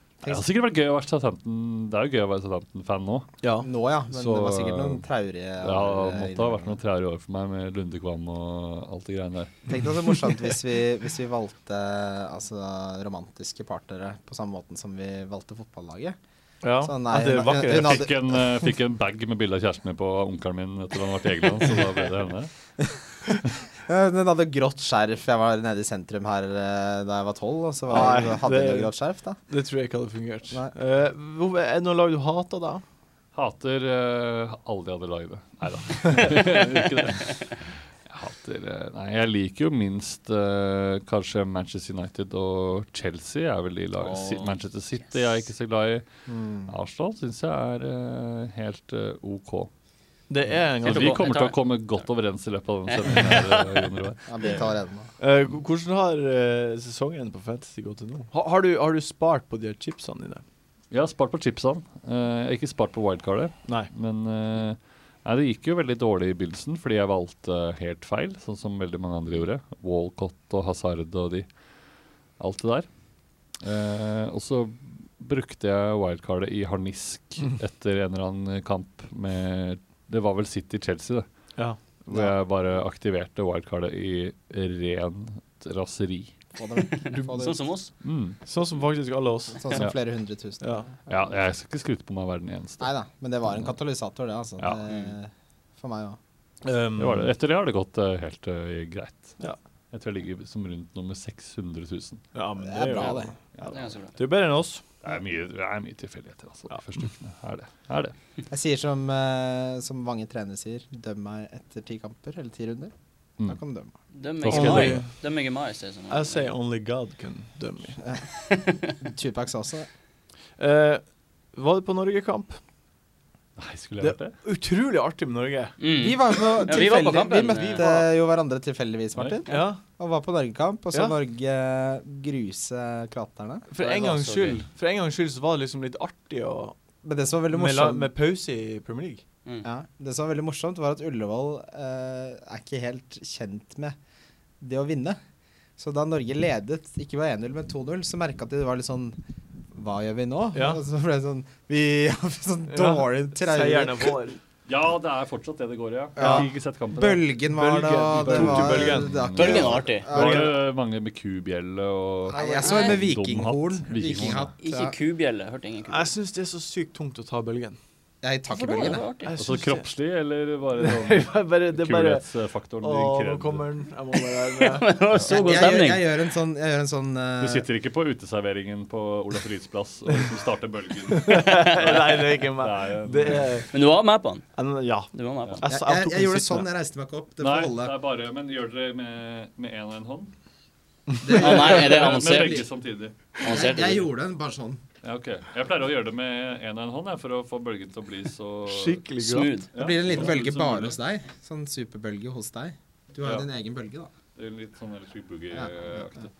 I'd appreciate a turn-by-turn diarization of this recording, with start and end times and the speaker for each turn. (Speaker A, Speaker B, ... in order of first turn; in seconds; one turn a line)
Speaker A: 0.2-3.3
Speaker B: 3.4-3.7
Speaker C: 3.6-6.8
Speaker A: 4.1-5.0
Speaker A: 5.6-9.8
Speaker C: 9.7-16.2
Speaker B: 16.6-18.0
Speaker C: 16.8-18.7
Speaker A: 17.6-22.5
Speaker C: 23.2-29.4
Speaker B: 27.9-28.9
Speaker B: 29.5-32.8
Speaker A: 33.3-46.1
Speaker B: 36.1-36.4
Speaker D: 44.0-45.2
Speaker C: 46.3-46.7
Speaker A: 46.6-49.7
Speaker B: 50.3-51.3
Speaker A: 50.8-54.2
Speaker D: 50.8-52.0
Speaker D: 52.9-53.9
Speaker C: 54.3-55.1
Speaker B: 55.2-60.4
Speaker A: 60.9-71.5
Speaker A: 72.4-72.9
Speaker A: 73.6-81.2
Speaker A: 82.0-86.3
Speaker C: 82.1-82.3
Speaker C: 86.5-87.6
Speaker D: 86.7-87.9
Speaker A: 88.0-88.4
Speaker B: 88.5-89.8
Speaker C: 89.6-91.0
Speaker B: 90.6-90.9
Speaker A: 91.1-92.9
Speaker C: 92.8-96.2
Speaker D: 94.9-95.1
Speaker B: 96.6-97.3
Speaker A: 97.0-99.4
Speaker A: 99.9-102.3
Speaker B: 102.3-103.3
Speaker C: 102.6-103.3
Speaker D: 103.6-104.2
Speaker B: 104.1-104.8
Speaker A: 105.0-108.1
Speaker C: 108.5-112.9
Speaker C: 113.4-113.9
Speaker D: 114.1-116.5
Speaker A: 114.4-115.0
Speaker B: 114.5-115.1
Speaker B: 116.1-118.0
Speaker D: 118.3-118.9
Speaker C: 119.0-119.9
Speaker B: 120.6-122.6
Speaker A: 123.6-124.4
Speaker B: 124.0-125.8
Speaker D: 125.8-127.9
Speaker C: 125.9-133.7
Speaker B: 127.6-128.0
Speaker B: 129.4-129.8
Speaker B: 133.7-136.8
Speaker D: 133.8-134.6
Speaker C: 137.0-138.1
Speaker B: 137.5-139.2
Speaker C: 139.6-144.0
Speaker C: 144.6-145.2
Speaker C: 145.8-149.2
Speaker C: 149.7-154.1
Speaker B: 150.5-150.8
Speaker B: 152.7-154.4
Speaker A: 154.7-157.3
Speaker C: 156.2-160.5
Speaker B: 156.2-156.5
Speaker B: 157.5-159.1
Speaker A: 158.3-164.5
Speaker D: 159.3-160.1
Speaker B: 160.1-160.5
Speaker C: 162.3-164.9
Speaker D: 162.4-163.0
Speaker D: 164.6-166.1
Speaker B: 165.9-167.8
Speaker C: 168.2-169.0
Speaker D: 168.5-169.3
Speaker B: 169.2-169.8
Speaker A: 169.4-173.7
Speaker B: 170.8-172.3
Speaker B: 172.8-174.9
Speaker D: 174.1-176.1
Speaker C: 175.2-177.7
Speaker A: 177.4-183.6
Speaker B: 181.1-183.7
Speaker D: 181.2-182.3
Speaker D: 183.6-184.5
Speaker B: 184.6-186.7
Speaker D: 185.1-185.6
Speaker C: 185.6-187.9
Speaker A: 187.4-190.3
Speaker C: 191.2-192.7
Speaker A: 191.3-193.4
Speaker D: 191.3-192.6
Speaker C: 193.4-194.8
Speaker D: 193.4-194.1
Speaker A: 195.0-199.0
Speaker B: 198.7-200.8
Speaker D: 199.2-199.7
Speaker C: 199.7-204.1
Speaker A: 199.8-200.9
Speaker A: 204.3-206.3
Speaker C: 205.5-206.2